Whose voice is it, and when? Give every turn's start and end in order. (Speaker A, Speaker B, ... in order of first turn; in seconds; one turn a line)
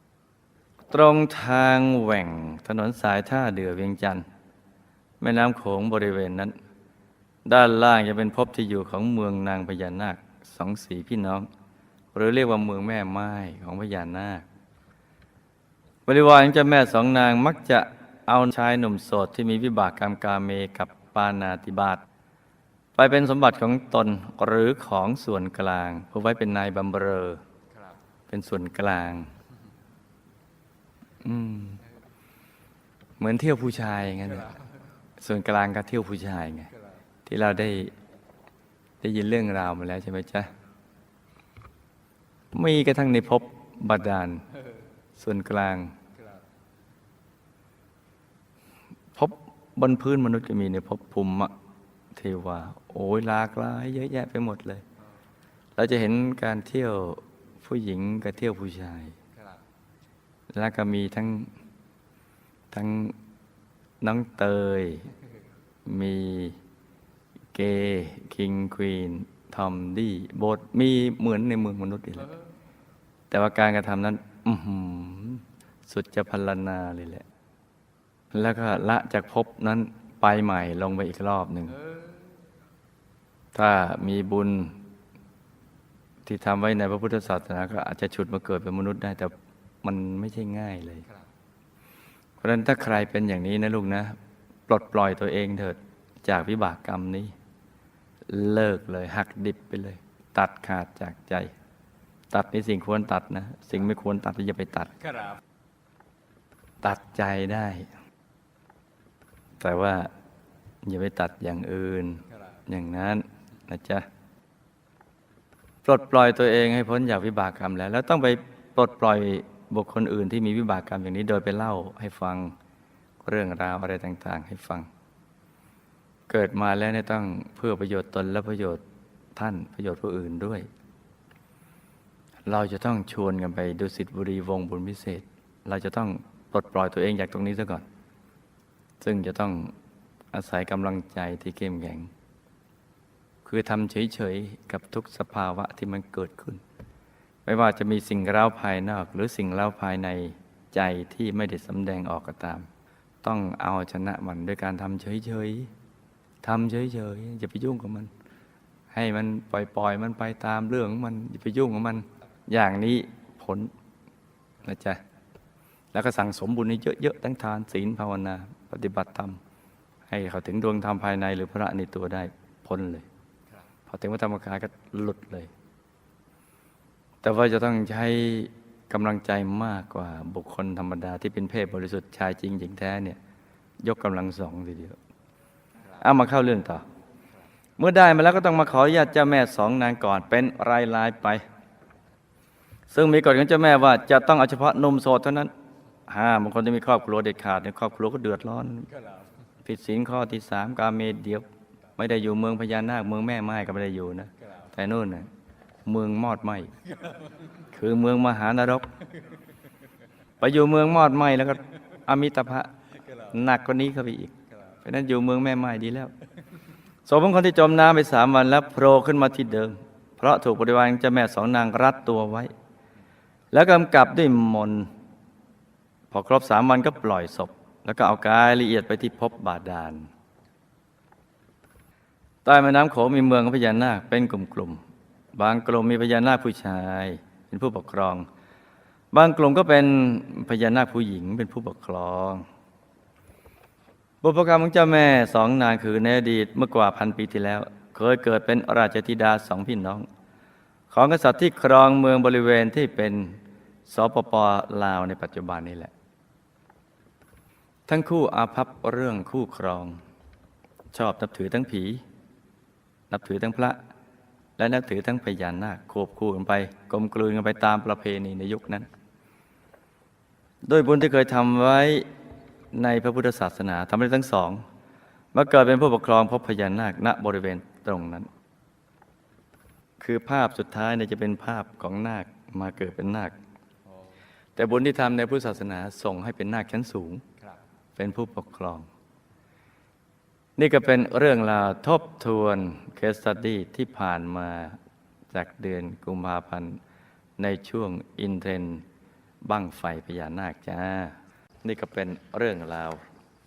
Speaker A: 0.9-4.2
Speaker A: 5.2-6.5
Speaker A: 7.5-11.5
Speaker A: 12.1-14.5
Speaker A: 16.1-22.0
Speaker A: 23.0-27.4
Speaker B: 27.7-28.0
Speaker A: 28.3-29.3
Speaker A: 31.2-31.8
Speaker A: 33.2-34.5
Speaker B: 34.3-34.7
Speaker A: 35.2-36.7
Speaker B: 36.7-37.0
Speaker A: 37.3-37.9
Speaker A: 39.0-40.5
Speaker A: 42.5-44.4
Speaker A: 45.2-45.9
Speaker B: 46.1-46.5
Speaker A: 49.2-51.5
Speaker A: 52.1-54.8
Speaker A: 55.8-59.1
Speaker B: 59.3-59.6
Speaker A: 60.5-61.5
Speaker A: 62.7-63.2
Speaker A: 64.0-65.1
Speaker A: 65.8-66.6
Speaker A: 67.5-72.3
Speaker A: 73.3-77.2
Speaker A: 78.3-81.8
Speaker B: 81.7-82.4
Speaker A: 83.5-84.8
Speaker A: 86.2-91.0
Speaker A: 92.4-94.2
Speaker A: 94.7-97.3
Speaker A: 98.3-101.5
Speaker A: 102.3-104.9
Speaker B: 105.0-105.4
Speaker A: 106.8-107.9
Speaker A: 109.6-110.1
Speaker A: 110.8-114.1
Speaker B: 112.3-112.6
Speaker A: 115.8-122.5
Speaker A: 123.2-124.9
Speaker A: 126.3-128.8
Speaker A: 129.4-130.7
Speaker A: 132.5-137.9
Speaker A: 139.0-139.7
Speaker A: 140.3-142.1
Speaker A: 143.4-146.6
Speaker A: 147.5-152.7
Speaker A: 153.2-155.7
Speaker A: 156.4-158.1
Speaker A: 158.9-163.7
Speaker A: 164.6-165.0
Speaker A: 165.9-169.4
Speaker A: 170.1-173.1
Speaker A: 173.9-175.5
Speaker A: 177.2-183.2
Speaker A: 183.8-185.0
Speaker A: 186.0-186.8
Speaker A: 187.8-191.4
Speaker A: 192.9-195.5
Speaker A: 196.1-198.9
Speaker B: 198.9-199.4
Speaker A: 199.6-201.5
Speaker A: 202.0-205.3
Speaker A: 205.9-206.7
Speaker B: 206.8-207.7
Speaker A: 207.7-208.9
Speaker A: 210.4-212.7
Speaker B: 213.0-213.4
Speaker A: 213.3-214.3
Speaker B: 214.5-214.8
Speaker A: 214.8-216.1
Speaker A: 217.1-222.5
Speaker A: 223.5-224.9
Speaker A: 226.1-230.1
Speaker A: 232.4-234.8
Speaker A: 235.3-238.3
Speaker A: 239.1-242.5
Speaker A: 244.2-250.1
Speaker A: 250.9-255.9
Speaker A: 257.9-260.0
Speaker A: 260.9-262.0
Speaker A: 263.1-263.8
Speaker A: 264.6-268.9
Speaker A: 270.7-272.1
Speaker A: 272.7-274.6
Speaker A: 275.3-278.3
Speaker A: 280.0-283.4
Speaker B: 283.9-284.2
Speaker A: 284.6-287.2
Speaker A: 288.0-288.9
Speaker A: 290.6-294.8
Speaker A: 295.3-296.8
Speaker A: 297.4-298.8
Speaker A: 299.4-303.0